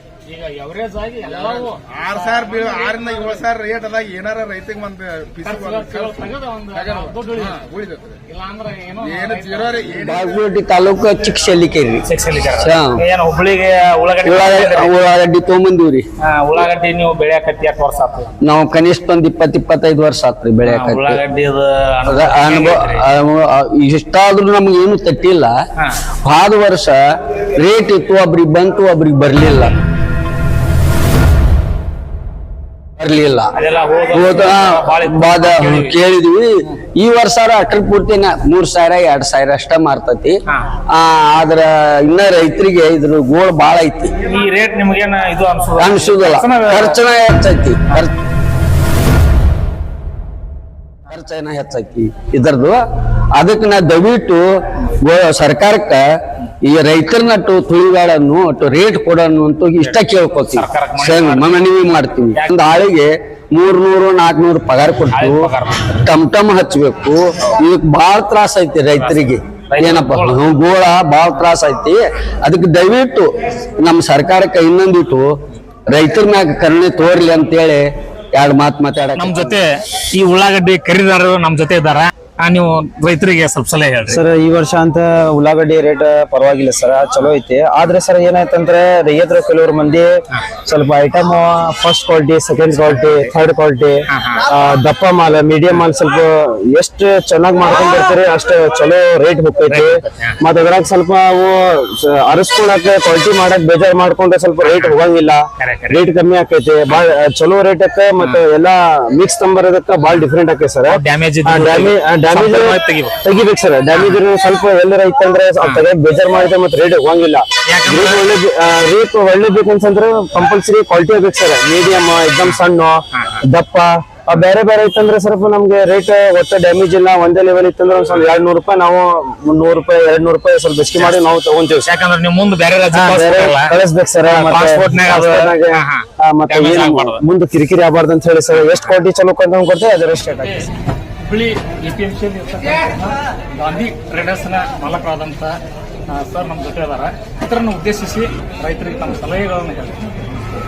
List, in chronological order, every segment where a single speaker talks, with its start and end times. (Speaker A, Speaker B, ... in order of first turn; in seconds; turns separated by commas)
Speaker A: 0.3-3.4, Speaker B: 1.3-8.2, Speaker A: 5.4-7.6, Speaker A: 8.3-9.9, Speaker B: 9.1-10.5, Speaker C: 10.1-12.0, Speaker A: 12.1-15.0, Speaker C: 12.6-13.0, Speaker C: 14.2-16.0, Speaker A: 16.2-18.3, Speaker C: 18.4-21.2, Speaker A: 20.7-23.0, Speaker C: 22.1-25.5, Speaker C: 26.2-29.8, Speaker C: 33.0-33.5, Speaker A: 33.6-35.9, Speaker C: 34.1-40.4, Speaker C: 40.9-44.1, Speaker A: 44.2-47.0, Speaker C: 45.8-48.1, Speaker C: 51.1-52.8, Speaker C: 53.4-56.0, Speaker C: 56.6-65.5, Speaker A: 60.6-61.6, Speaker A: 65.1-66.1, Speaker C: 66.1-73.3, Speaker A: 69.0-70.4, Speaker C: 73.8-75.3, Speaker C: 75.9-79.6, Speaker A: 79.2-84.2, Speaker D: 84.1-90.1, Speaker D: 90.7-131.9, Speaker A: 94.1-94.5, Speaker A: 99.7-100.4, Speaker A: 104.6-105.0, Speaker A: 105.6-106.1, Speaker A: 110.9-113.4, Speaker A: 113.9-114.2, Speaker A: 117.7-118.3, Speaker A: 130.9-131.3, Speaker A: 131.8-133.8, Speaker D: 132.9-140.6, Speaker A: 134.3-137.2, Speaker A: 138.5-139.0, Speaker A: 140.4-140.7, Speaker A: 141.2-145.6, Speaker A: 146.1-150.0